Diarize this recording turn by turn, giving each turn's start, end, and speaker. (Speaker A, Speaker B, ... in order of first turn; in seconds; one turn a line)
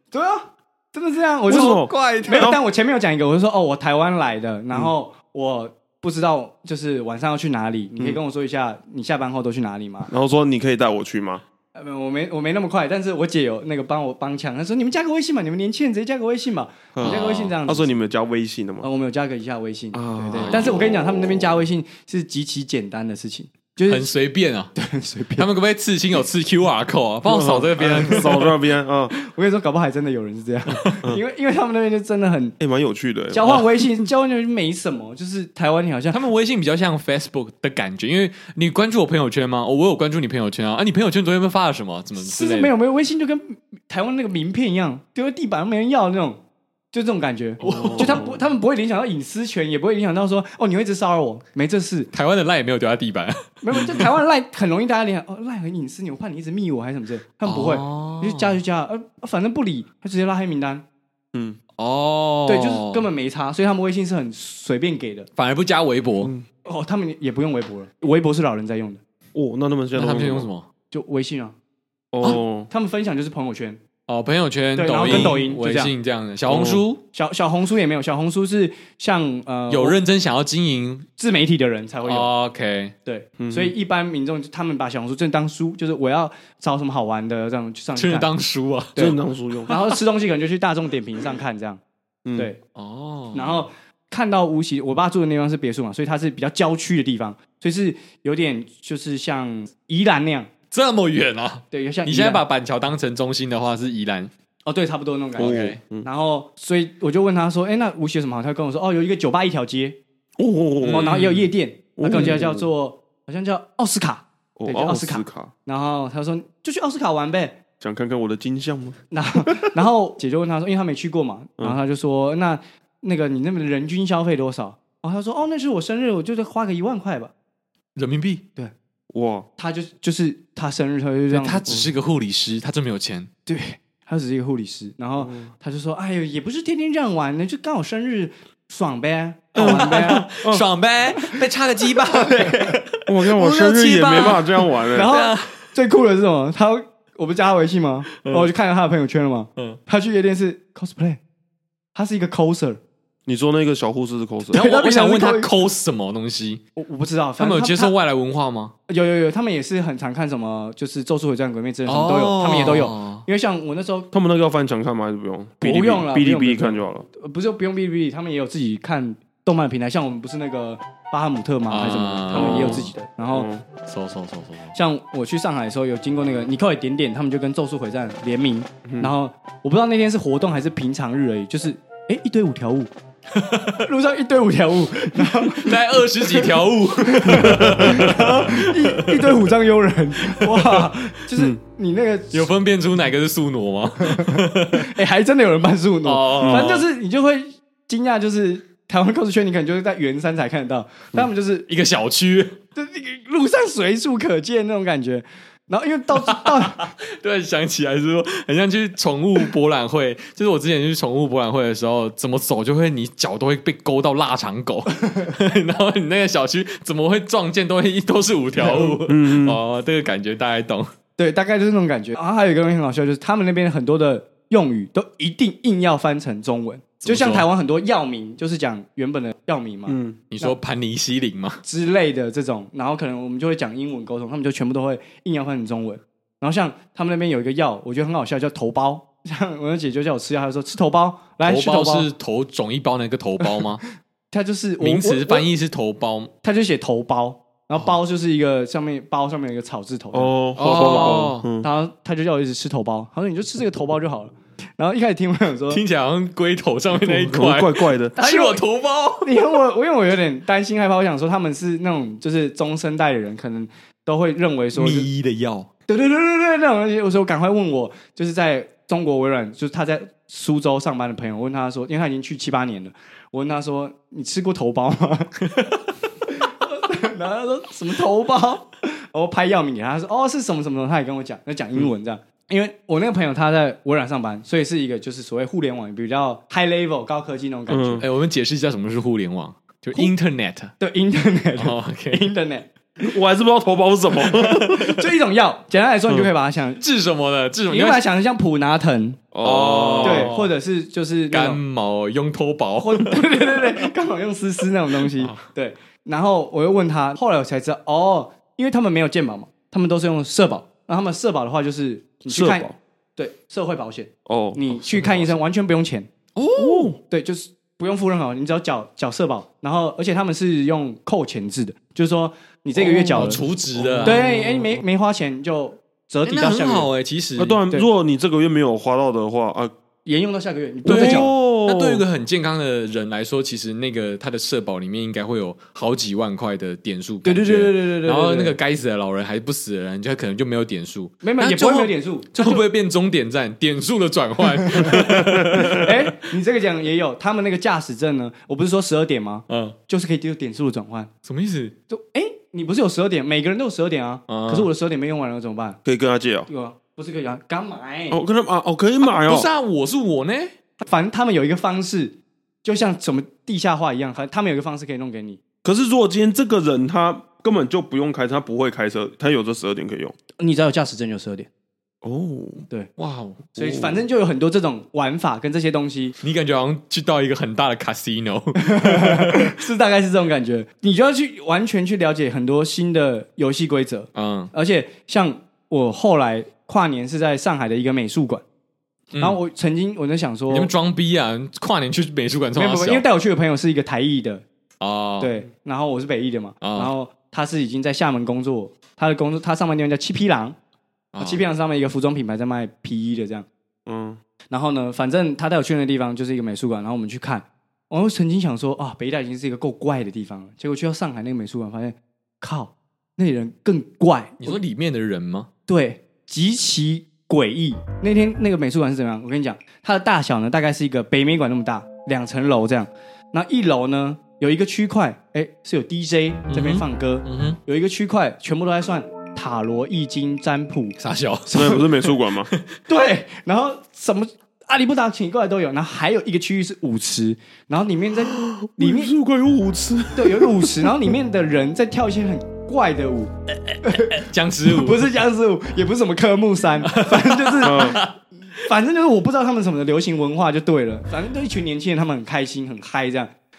Speaker A: 0.1-10.1
Speaker B: 1.5-2.6
Speaker C: 1.9-2.3
Speaker B: 10.1-11.4
Speaker A: 11.8-17.9
Speaker B: 16.9-18.9
Speaker C: 17.0-17.6
Speaker A: 18.8-24.1
Speaker B: 19.9-21.0
Speaker C: 20.4-20.6
Speaker C: 23.9-24.7
Speaker A: 24.8-25.5
Speaker C: 25.4-28.5
Speaker B: 27.2-29.1
Speaker A: 27.8-28.4
Speaker A: 29.1-32.6
Speaker B: 32.6-33.6
Speaker A: 33.3-36.2
Speaker C: 36.1-42.7
Speaker A: 42.2-46.4
Speaker A: 46.9-52.1
Speaker B: 47.6-48.4
Speaker C: 47.6-48.2
Speaker C: 52.1-54.1
Speaker A: 53.6-60.8
Speaker C: 57.5-58.6
Speaker B: 61.3-61.6
Speaker C: 61.8-63.1
Speaker A: 62.5-65.3
Speaker C: 65.4-66.3
Speaker A: 66.6-69.0
Speaker B: 69.3-70.5
Speaker C: 70.0-70.7
Speaker A: 70.9-71.5
Speaker B: 72.1-72.7
Speaker A: 72.3-73.8
Speaker C: 74.1-77.0
Speaker A: 74.8-75.9
Speaker B: 75.0-75.4
Speaker B: 76.5-76.8
Speaker A: 77.1-80.0
Speaker C: 79.7-81.1
Speaker A: 81.2-82.3
Speaker C: 82.0-82.9
Speaker A: 83.0-88.3
Speaker B: 83.4-83.7
Speaker C: 88.0-89.1
Speaker A: 89.0-91.8
Speaker B: 89.0-89.8
Speaker B: 92.2-92.5
Speaker C: 92.8-93.6
Speaker A: 93.3-100.5
Speaker C: 100.7-104.3
Speaker A: 101.7-102.4
Speaker A: 104.7-110.0
Speaker C: 105.4-105.8
Speaker B: 105.4-106.1
Speaker B: 110.4-111.2
Speaker C: 110.8-111.5
Speaker A: 110.9-117.6
Speaker B: 112.0-112.7
Speaker B: 114.6-115.5
Speaker B: 117.8-119.7
Speaker A: 119.1-127.3
Speaker C: 128.0-128.4
Speaker B: 129.1-129.5
Speaker A: 129.6-131.7
Speaker C: 131.3-133.3
Speaker A: 133.5-140.3
Speaker B: 135.2-135.5
Speaker B: 139.6-140.6
Speaker C: 139.6-145.6
Speaker A: 141.9-142.8
Speaker B: 143.1-145.1
Speaker A: 144.9-151.2
Speaker C: 148.2-148.5
Speaker A: 151.9-152.8
Speaker B: 153.3-154.6
Speaker A: 154.5-155.5
Speaker C: 154.5-156.6
Speaker A: 156.8-157.9
Speaker C: 157.4-158.7
Speaker A: 158.9-164.1
Speaker C: 161.9-163.2
Speaker B: 164.1-167.1
Speaker A: 165.6-173.5
Speaker C: 171.7-172.9
Speaker B: 172.3-173.6
Speaker C: 173.9-174.7
Speaker A: 174.7-182.9
Speaker B: 178.8-179.1
Speaker C: 183.3-183.8
Speaker A: 183.7-192.5
Speaker C: 185.1-189.5
Speaker B: 187.3-188.2
Speaker C: 190.2-190.9
Speaker C: 192.3-194.9
Speaker A: 194.0-201.7
Speaker C: 196.0-196.8
Speaker B: 196.4-196.8
Speaker C: 201.7-202.6
Speaker A: 202.8-206.9
Speaker C: 206.2-220.9
Speaker B: 218.6-219.6
Speaker A: 221.2-230.6
Speaker C: 227.0-227.5
Speaker B: 229.9-230.2
Speaker C: 230.3-231.6
Speaker A: 231.6-242.1
Speaker C: 241.4-243.8
Speaker A: 244.3-245.5
Speaker C: 244.8-246.3
Speaker A: 246.4-255.8
Speaker B: 250.1-251.7
Speaker C: 250.6-251.5
Speaker C: 255.7-259.4
Speaker B: 256.9-258.2
Speaker A: 258.2-258.6
Speaker A: 259.2-265.1
Speaker C: 264.8-265.7
Speaker A: 265.9-275.4
Speaker A: 276.2-288.1
Speaker B: 287.7-288.0
Speaker C: 288.0-290.7
Speaker A: 290.8-292.7
Speaker C: 291.6-292.3
Speaker B: 293.0-294.8
Speaker C: 294.2-294.9
Speaker A: 294.8-296.8
Speaker C: 296.8-298.0
Speaker A: 297.7-299.2
Speaker B: 299.3-300.3
Speaker C: 299.4-300.5
Speaker A: 300.0-301.6
Speaker C: 301.3-303.8
Speaker A: 302.8-316.1
Speaker C: 305.0-305.4
Speaker B: 312.3-312.8
Speaker B: 314.3-315.3
Speaker C: 316.4-316.9
Speaker B: 316.6-317.0
Speaker A: 317.0-323.4
Speaker B: 322.8-324.7
Speaker C: 323.1-324.3
Speaker A: 324.0-326.9
Speaker C: 326.2-327.6
Speaker B: 327.4-329.7
Speaker A: 330.1-331.3
Speaker B: 330.9-332.0
Speaker C: 330.9-346.1
Speaker A: 337.2-338.6
Speaker A: 341.2-342.6
Speaker A: 344.7-351.1
Speaker B: 345.3-345.7
Speaker C: 349.5-349.8
Speaker C: 351.2-351.7
Speaker A: 351.9-355.8
Speaker C: 354.3-354.7
Speaker B: 355.9-356.5
Speaker A: 356.5-358.2
Speaker B: 358.1-359.5
Speaker C: 359.0-360.5
Speaker A: 360.8-365.4
Speaker B: 365.6-370.1
Speaker A: 370.4-371.5
Speaker B: 372.0-372.6
Speaker C: 373.0-373.5
Speaker A: 373.6-376.2
Speaker B: 373.6-374.0
Speaker C: 376.2-379.6
Speaker A: 378.6-388.4
Speaker C: 384.1-384.5
Speaker C: 389.1-389.4
Speaker A: 389.2-390.7
Speaker C: 390.5-393.1
Speaker A: 392.6-394.4
Speaker C: 394.8-395.3
Speaker A: 395.2-400.6
Speaker C: 396.6-396.9
Speaker C: 401.1-401.4
Speaker A: 401.2-403.5
Speaker B: 403.9-404.2
Speaker A: 404.5-414.6
Speaker C: 414.4-415.5
Speaker A: 415.7-431.0
Speaker C: 426.5-427.6
Speaker C: 431.0-432.6
Speaker B: 431.5-432.5
Speaker A: 432.9-439.1
Speaker B: 438.4-440.9
Speaker A: 440.1-443.3
Speaker C: 443.7-445.1
Speaker A: 443.8-453.3
Speaker C: 446.9-448.1
Speaker B: 447.6-448.0